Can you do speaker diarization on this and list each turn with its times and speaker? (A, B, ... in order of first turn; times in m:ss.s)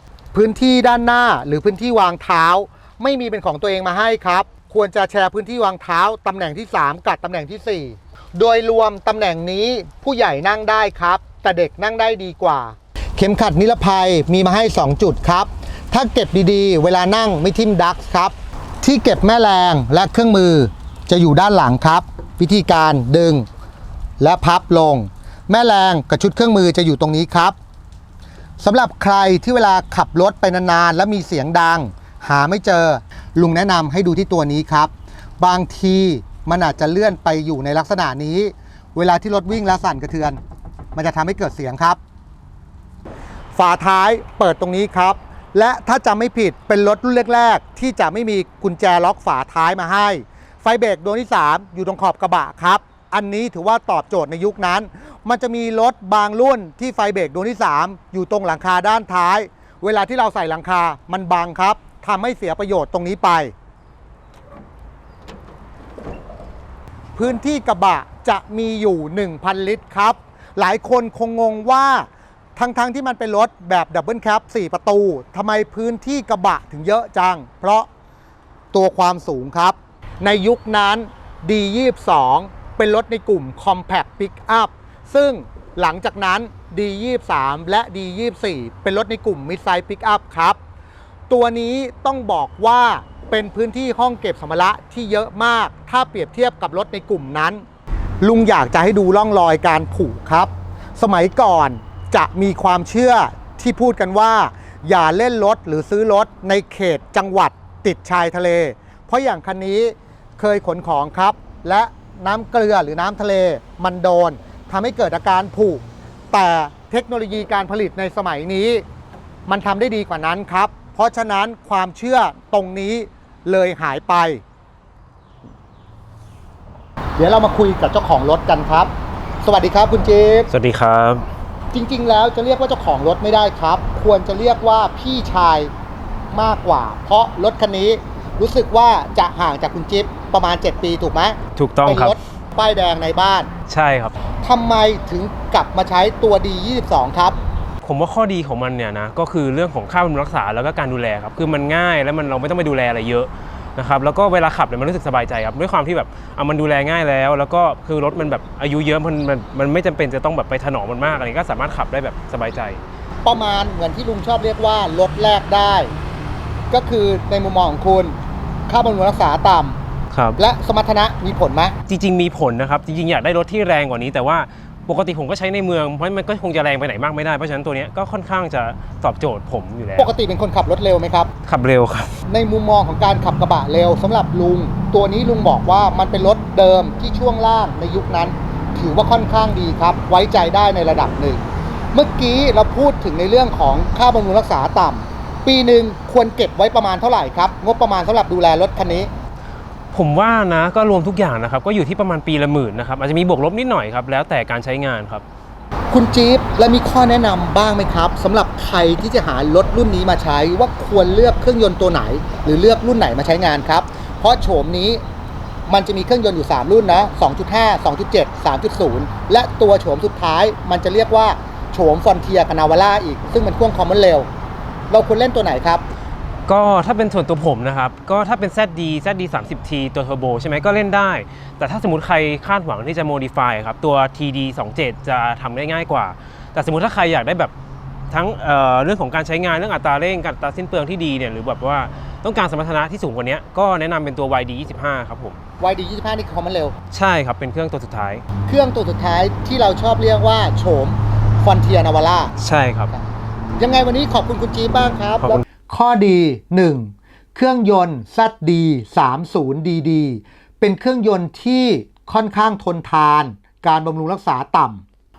0:00.3-0:23.5 A
0:24.2-0:27.6 A
0:28.6-0:40.4 A
0:40.9-0:42.0 A
0:43.5-1:03.5 A
1:07.2-1:17.9 A
1:18.7-1:30.6 A
1:31.3-1:37.6 A
1:38.2-1:58.8 A
1:59.5-2:04.4 A
2:07.2-2:08.9 A
2:09.4-2:10.5 A
2:10.5-2:11.2 B
2:11.7-2:15.7 A
2:16.3-2:23.5 A
2:21.6-2:22.1 B
2:23.7-2:24.2 B
2:24.4-2:27.4 A
2:27.8-2:42.8 B
2:43.2-2:45.9 A
2:46.7-2:48.2 A
2:48.7-2:49.8 A
2:50.1-2:50.4 B
2:50.4-2:51.7 A
2:51.9-3:00.1 B
3:00.0-3:01.3 A
3:01.4-3:02.2 B
3:02.3-3:11.4 A
3:11.9-3:19.1 A
3:19.9-3:25.2 B
3:25.9-3:35.0 A
3:35.7-3:44.3 A
3:44.9-3:45.8 A
3:46.5-3:57.5 B
3:58.1-4:05.4 B
4:05.6-4:06.7 A
4:06.9-4:08.2 B
4:08.5-4:12.3 A
4:12.4-4:12.9 B
4:13.6-4:24.8 A